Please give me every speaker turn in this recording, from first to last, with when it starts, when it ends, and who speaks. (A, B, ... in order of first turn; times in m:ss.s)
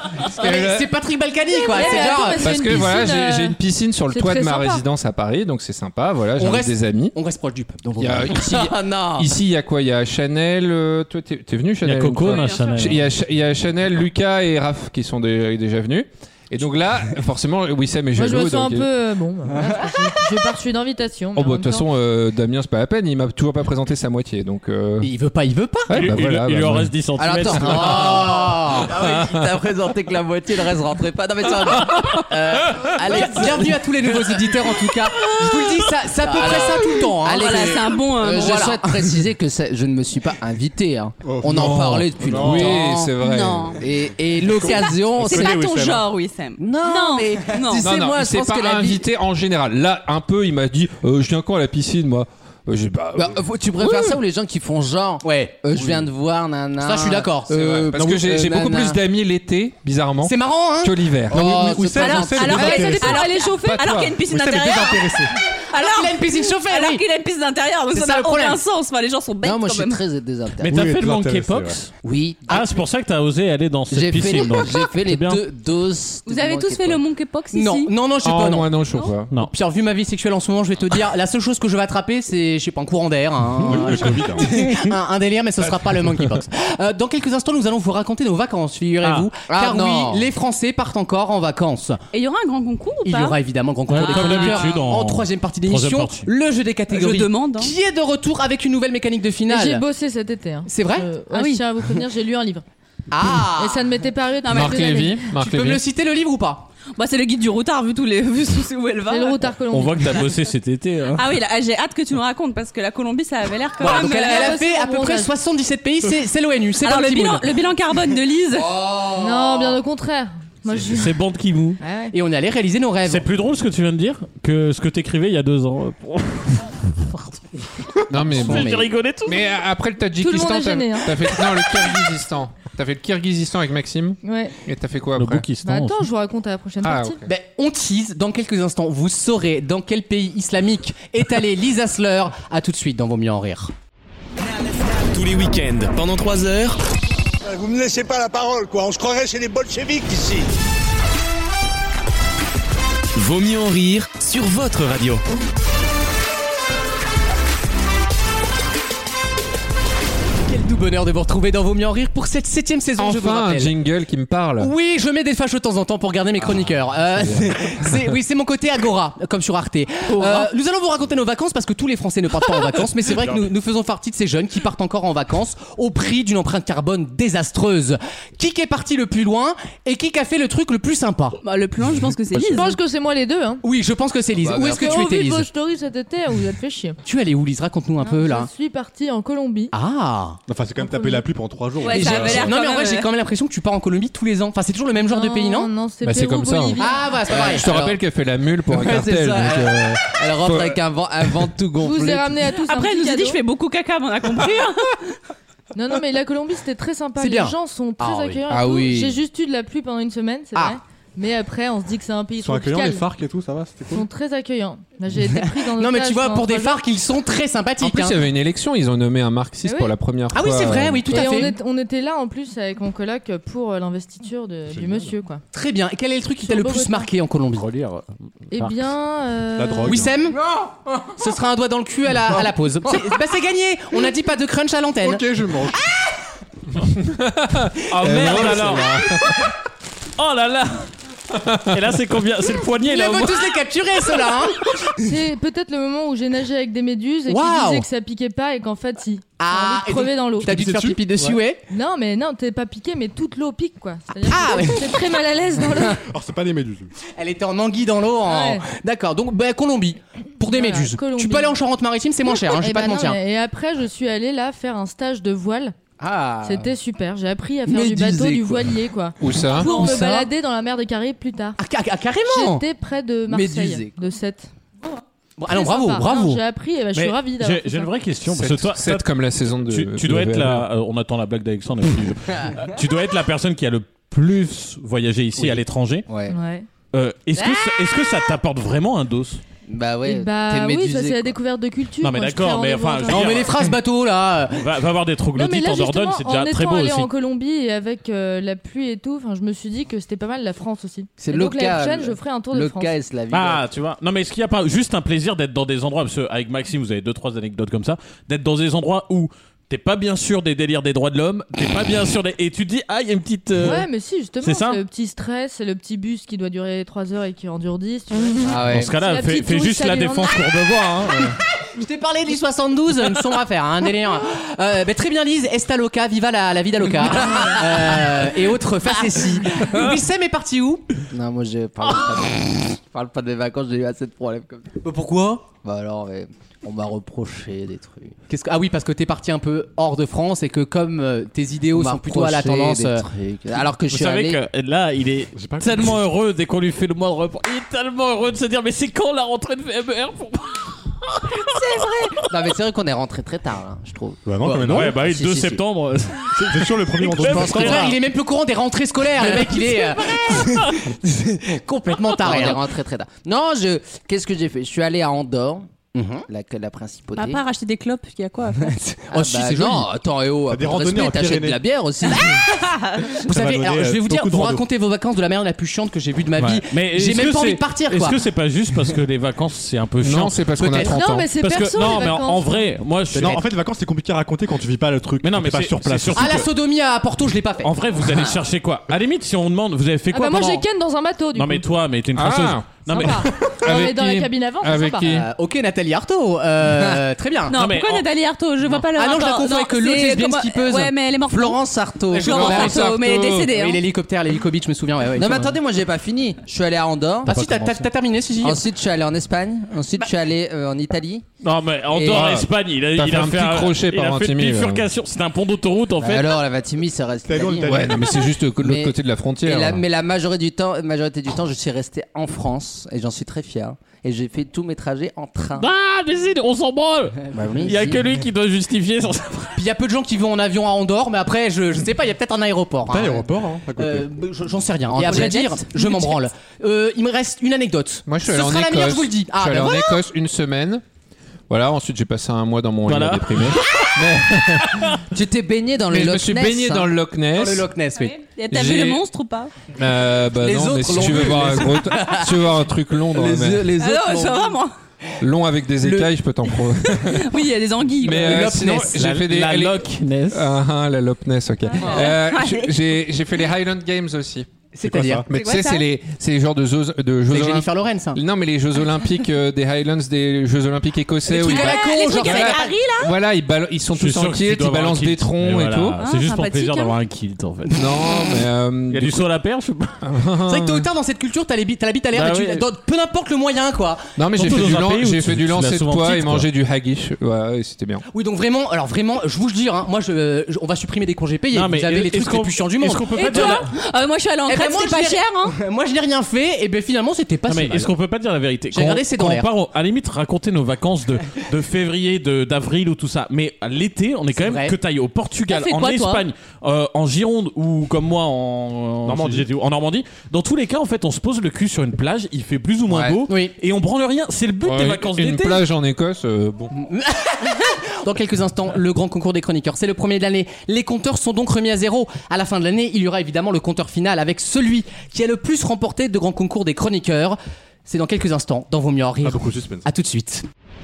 0:00.3-0:02.4 A
0:00.4-0:00.9 B
0:01.6-0:04.8 C
0:02.4-0:07.1 B
0:06.4-0:08.5 A
0:08.0-0:18.9 B
0:08.3-0:09.3 D
0:11.8-0:13.0 E
0:12.2-0:12.9 F
0:18.1-0:21.9 C
0:21.4-0:25.1 B
0:25.0-0:26.1 A
0:25.9-0:27.0 B
0:25.9-0:28.3 E
0:27.2-0:34.2 D
0:27.6-0:29.0 A
0:31.9-0:32.2 B
0:33.0-0:39.1 A
0:36.2-0:43.2 D
0:37.2-0:38.8 F
0:41.2-0:42.8 G
0:41.5-0:43.7 B
0:43.2-0:43.8 F
0:43.8-0:45.6 D
0:44.4-0:46.1 G
0:44.5-0:47.9 F
0:46.6-0:49.0 D
0:47.7-0:53.4 B
0:53.2-0:59.0 D
0:53.8-0:54.2 A
0:55.2-0:55.6 A
0:56.8-0:57.5 A
0:57.5-1:01.6 B
0:58.0-0:58.2 G
1:00.2-1:01.0 A
1:01.3-1:03.2 D
1:01.3-1:03.4 G
1:01.8-1:10.0 F
1:03.5-1:04.2 B
1:04.2-1:05.4 G
1:05.7-1:07.0 A
1:07.9-1:08.6 A
1:09.4-1:10.9 D
1:10.7-1:11.9 E
1:10.7-1:11.8 G
1:12.0-1:12.7 D
1:12.5-1:15.4 E
1:13.9-1:17.0 D
1:16.3-1:17.9 F
1:17.5-1:18.7 A
1:18.2-1:19.3 B
1:19.4-1:32.0 A
1:23.6-1:24.9 G
1:29.0-1:29.3 E
1:29.5-1:30.3 D
1:32.1-1:33.4 F
1:33.0-1:39.8 A
1:33.9-1:36.3 E
1:34.0-1:34.6 F
1:36.9-1:37.7 F
1:39.5-1:42.6 C
1:40.7-1:41.1 A
1:41.3-1:41.6 F
1:43.1-1:43.9 A
1:43.6-1:45.2 C
1:44.4-1:45.1 F
1:44.5-1:45.8 B
1:45.4-1:46.7 A
1:46.9-1:49.5 F
1:49.1-1:50.3 C
1:49.7-1:51.3 E
1:51.1-1:54.6 F
1:53.8-1:57.6 A
1:53.8-1:55.3 C
1:56.8-1:58.8 F
1:58.5-1:59.8 D
1:59.2-2:01.1 C
2:00.7-2:01.8 E
2:01.8-2:02.1 C
2:02.1-2:03.2 A
2:03.1-2:09.4 E
2:08.1-2:15.4 B
2:08.4-2:08.8 D
2:10.2-2:11.1 C
2:14.2-2:14.5 C
2:15.2-2:16.1 E
2:15.6-2:17.2 C
2:16.8-2:17.3 B
2:17.3-2:23.7 A
2:25.1-2:26.8 H
2:27.4-2:30.5 I
2:33.2-2:35.2 H
2:40.4-2:43.7 A
2:43.0-2:44.7 B
2:44.6-3:01.4 A
2:47.2-2:47.6 B
2:50.2-2:50.5 F
2:53.2-2:53.4 G
3:01.4-3:02.8 F
3:02.3-3:03.6 C
3:03.6-3:05.5 A
3:04.4-3:05.1 D
3:04.7-3:07.0 C
3:07.0-3:08.5 A
3:08.0-3:09.7 C
3:09.7-3:10.4 A
3:10.5-3:12.6 G
3:10.8-3:11.2 C
3:11.8-3:13.1 F
3:11.8-3:15.7 A
3:15.0-3:17.2 C
3:16.0-3:20.8 B
3:16.8-3:18.0 A
3:17.3-3:17.7 D
3:18.7-3:22.4 D
3:18.8-3:19.7 A
3:21.8-3:23.4 C
3:22.6-3:25.0 F
3:25.7-3:33.1 C
3:27.2-3:28.4 A
3:28.5-3:29.2 D
3:32.4-3:34.0 G
3:33.9-3:36.8 C
3:35.3-3:38.2 A
3:37.8-3:41.5 B
3:39.6-3:39.9 C
3:40.3-3:41.5 A
3:41.1-3:45.4 C
3:44.7-3:45.1 G
3:45.5-3:47.7 A
3:46.4-3:47.1 C
3:47.6-3:48.8 E
3:48.5-3:50.1 C
3:49.6-3:50.2 G
3:49.8-3:50.4 A
3:51.2-3:55.3 A
3:55.0-3:55.8 G
3:56.9-3:59.4 B
3:57.9-3:59.1 E
3:58.0-3:58.8 A
4:00.2-4:00.9 E
4:01.3-4:01.7 B
4:01.7-4:03.5 E
4:02.8-4:05.2 A
4:05.0-4:10.5 C
4:07.3-4:07.8 A
4:09.4-4:11.6 A
4:10.4-4:11.3 G
4:11.7-4:16.0 C
4:14.3-4:15.1 A
4:16.1-4:16.9 G
4:17.1-4:23.2 A
4:18.3-4:18.7 C
4:20.5-4:21.5 C
4:22.3-4:25.7 C
4:26.0-4:26.7 D
4:26.4-4:31.6 C
4:27.7-4:28.7 D
4:29.2-4:29.8 B
4:29.6-4:30.0 F
4:29.7-4:30.3 A
4:31.6-4:32.6 A
4:32.3-4:34.5 C
4:33.3-4:34.0 D
4:35.4-4:36.4 A
4:35.5-4:37.9 C
4:36.9-4:46.1 E
4:38.3-4:40.7 B
4:46.1-4:46.4 D
4:46.3-4:46.7 C
4:46.9-4:49.4 E
4:49.7-4:51.4 D
4:50.0-4:53.4 C
4:52.0-4:53.6 E
4:53.1-4:54.7 A
4:54.5-4:57.1 E
4:55.4-5:02.9 C
5:01.2-5:03.6 D
5:03.3-5:13.9 E
5:13.6-5:20.4 C
5:14.4-5:14.8 E
5:18.4-5:18.9 D
5:18.7-5:21.4 E
5:21.7-5:30.8 A
5:31.1-5:34.8 D
5:34.8-5:35.4 A
5:35.6-5:38.2 D
5:38.3-5:43.0 A
5:41.7-5:44.4 D
5:43.9-5:52.1 E
5:45.3-5:46.0 G
5:52.2-5:55.6 D
5:54.3-5:55.0 G
5:54.6-5:58.0 E
5:56.4-5:58.0 D
5:56.4-5:57.8 G
5:57.2-6:02.6 A
5:59.2-6:00.7 E
6:02.2-6:05.7 D
6:05.9-6:06.3 A
6:06.3-6:07.4 D
6:07.2-6:08.8 F
6:08.7-6:09.9 A
6:09.1-6:12.4 D
6:10.5-6:11.6 G
6:12.1-6:13.2 F
6:13.2-6:14.6 G
6:13.2-6:18.2 A
6:16.7-6:23.4 E
6:20.0-6:21.3 B
6:20.8-6:22.7 C
6:23.1-6:26.4 G
6:25.2-6:26.4 E
6:26.2-6:28.3 A
6:27.6-6:30.6 E
6:30.1-6:31.6 C
6:31.3-6:33.3 E
6:32.2-6:35.3 B
6:32.9-6:35.2 C
6:35.1-6:37.6 A
6:36.7-6:37.0 D
6:37.5-6:41.6 F
6:37.5-6:38.1 E
6:38.9-6:41.0 A
6:41.3-6:42.7 D
6:42.1-6:42.9 A
6:42.2-6:43.8 F
6:42.3-6:43.5 B
6:43.5-6:45.6 A
6:45.2-6:47.4 D
6:47.2-6:48.6 A
6:48.4-6:51.2 D
6:51.4-6:56.4 E
6:51.9-6:52.4 D
6:52.0-6:54.8 B
6:56.0-7:05.7 D
6:57.3-6:58.2 G
6:57.6-6:59.8 B
7:05.6-7:09.6 E
7:07.3-7:08.1 D
7:09.6-7:20.0 A
7:12.8-7:14.1 G
7:14.9-7:15.6 D
7:14.9-7:16.2 F
7:18.1-7:20.8 B
7:21.5-7:24.9 B
7:22.8-7:23.8 E
7:25.1-7:26.9 D
7:25.9-7:27.7 B
7:27.3-7:28.2 A
7:28.0-7:29.5 F
7:28.5-7:29.0 B
7:29.8-7:33.8 B
7:30.4-7:32.4 A
7:30.9-7:31.3 D
7:33.2-7:34.5 D
7:33.7-7:34.7 F
7:35.2-7:37.3 B
7:35.8-7:36.1 A
7:37.0-7:38.6 F
7:38.0-7:44.5 B
7:38.2-7:39.1 A
7:38.9-7:40.5 E
7:41.7-7:42.7 F
7:41.8-7:42.1 A
7:44.7-7:45.3 A
7:44.8-7:45.3 G
7:45.3-7:56.0 B
7:45.3-7:45.8 F
7:47.3-7:48.2 A
7:51.3-7:52.8 A
7:51.3-7:53.1 F
7:54.0-7:57.8 E
7:56.0-7:57.0 F
7:57.7-7:59.3 B
7:58.9-8:00.0 E
8:00.0-8:00.9 B
8:00.4-8:04.0 A
8:02.1-8:02.7 E
8:04.2-8:08.0 B
8:04.4-8:06.5 E
8:08.1-8:13.6 A
8:11.5-8:13.7 E
8:13.1-8:15.6 F
8:14.4-8:17.9 A
8:17.5-8:35.6 E
8:18.7-8:19.5 A
8:24.4-8:24.7 A
8:25.5-8:26.3 F
8:29.0-8:29.5 G
8:33.3-8:33.5 A
8:34.6-8:36.7 B
8:36.7-8:50.4 A
8:49.2-8:49.9 G